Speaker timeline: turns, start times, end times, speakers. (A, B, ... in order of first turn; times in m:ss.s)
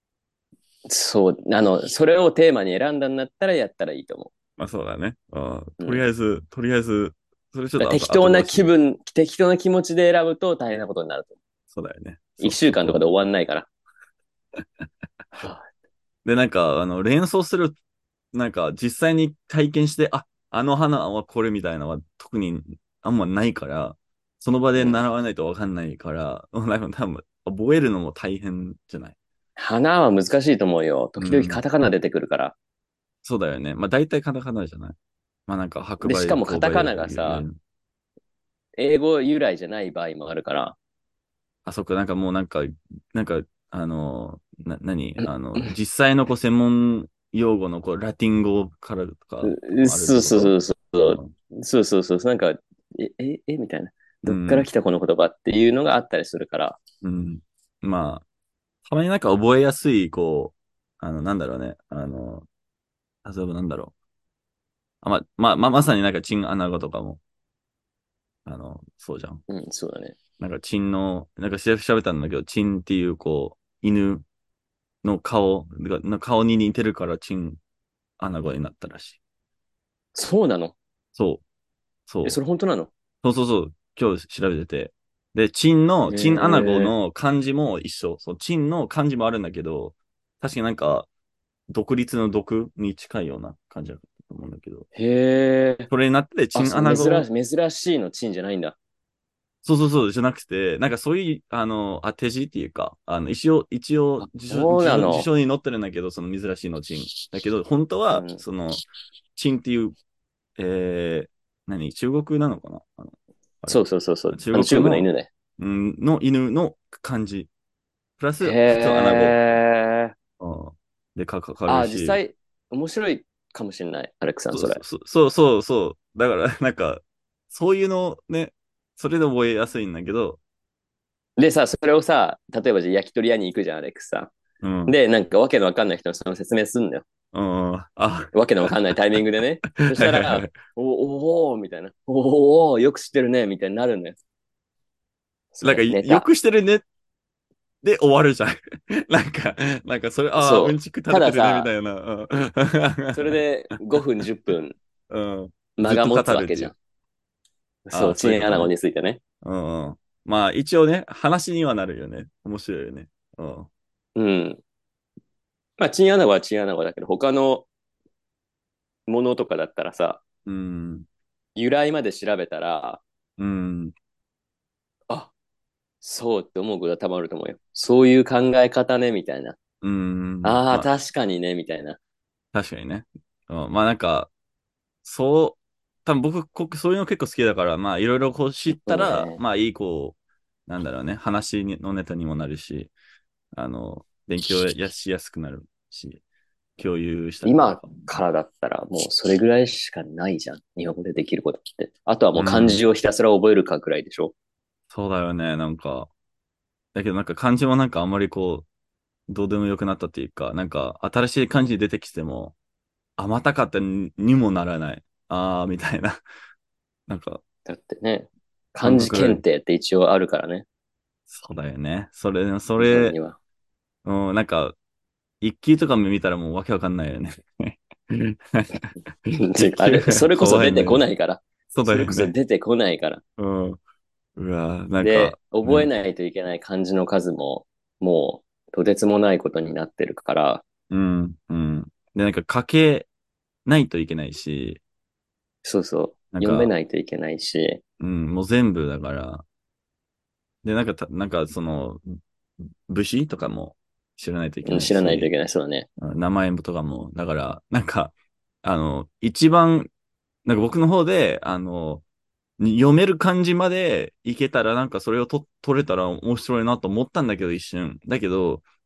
0:00.9-0:04.3 A
0:04.6-0:08.7 B
0:07.8-0:11.4 A
0:11.7-0:13.0 B
0:12.4-0:13.7 A
0:15.3-0:15.6 A
0:16.2-0:17.8 B
0:18.3-0:29.2 B
0:24.8-0:25.0 A
0:29.6-0:32.5 A
0:31.2-0:31.6 B
0:33.2-0:35.0 B
0:35.5-0:37.5 B
0:36.0-0:37.4 A
0:38.8-0:40.8 A
0:41.6-0:51.3 B
0:45.2-0:45.7 A
0:49.4-0:56.8 A
0:54.2-0:54.7 B
0:57.0-0:58.2 B
0:58.8-1:02.5 B
1:03.2-1:03.9 B
1:05.0-1:07.2 B
1:08.4-1:09.4 B
1:09.5-1:10.2 A
1:10.4-1:14.2 B
1:15.0-1:17.6 B
1:18.2-1:19.2 B
1:20.1-1:20.8 A
1:21.1-1:21.4 B
1:22.1-1:22.4 B
1:22.2-1:22.9 A
1:23.2-1:31.1 B
1:26.0-1:26.9 A
1:31.7-1:34.9 B
1:34.9-1:35.9 A
1:35.9-1:37.3 B
1:36.5-1:38.8 A
1:39.6-1:49.9 B
1:44.2-1:45.3 A
1:48.1-1:48.4 A
1:50.6-1:57.5 B
1:53.7-1:55.3 A
1:58.2-1:59.5 B
1:58.4-2:00.1 A
2:00.4-2:02.2 B
2:01.7-2:04.8 A
2:04.5-2:10.4 B
2:11.4-2:14.3 A
2:14.6-2:15.0 B
2:14.9-2:17.0 A
2:17.3-2:20.5 B
2:18.3-2:24.2 A
2:25.5-2:26.3 A
2:25.6-2:26.8 B
2:27.8-2:33.4 B
2:30.4-2:31.7 A
2:33.1-2:34.8 A
2:35.1-2:36.7 B
2:35.8-2:36.7 A
2:37.9-2:39.2 A
2:37.9-2:38.7 B
2:39.4-2:43.7 B
2:44.2-2:44.6 A
2:45.8-2:47.7 A
2:49.1-2:50.2 A
2:50.4-2:51.0 B
2:51.6-2:53.0 A
2:53.4-2:53.9 B
2:56.0-2:59.6 A
2:59.8-3:00.9 B
3:00.4-3:02.0 A
3:02.5-3:04.3 B
3:05.0-3:10.2 B
3:08.7-3:09.4 A
3:10.7-3:12.9 B
3:13.5-3:16.2 B
3:16.8-3:18.1 B
3:17.4-3:24.3 A
3:22.4-3:22.8 B
3:24.9-3:26.1 B
3:26.9-3:28.6 B
3:29.3-3:32.5 B
3:33.2-3:36.2 B
3:37.1-3:37.4 B
3:37.6-3:40.6 A
3:38.8-3:39.4 B
3:41.3-3:43.2 B
3:42.8-3:43.4 A
3:44.0-3:44.8 B
3:45.4-3:49.0 B
3:49.4-3:53.2 A
3:49.6-3:51.0 B
3:51.7-3:52.3 B
3:53.4-3:53.8 B
3:54.4-3:55.9 B
3:55.0-4:00.6 A
4:00.9-4:03.1 B
4:03.6-4:04.8 B
4:05.6-4:07.8 A
4:06.3-4:06.7 B
4:08.0-4:09.4 B
4:10.6-4:12.2 B
4:12.9-4:15.3 B
4:14.6-4:15.9 A
4:16.0-4:19.9 B
4:20.4-4:22.0 B
4:22.6-4:28.6 B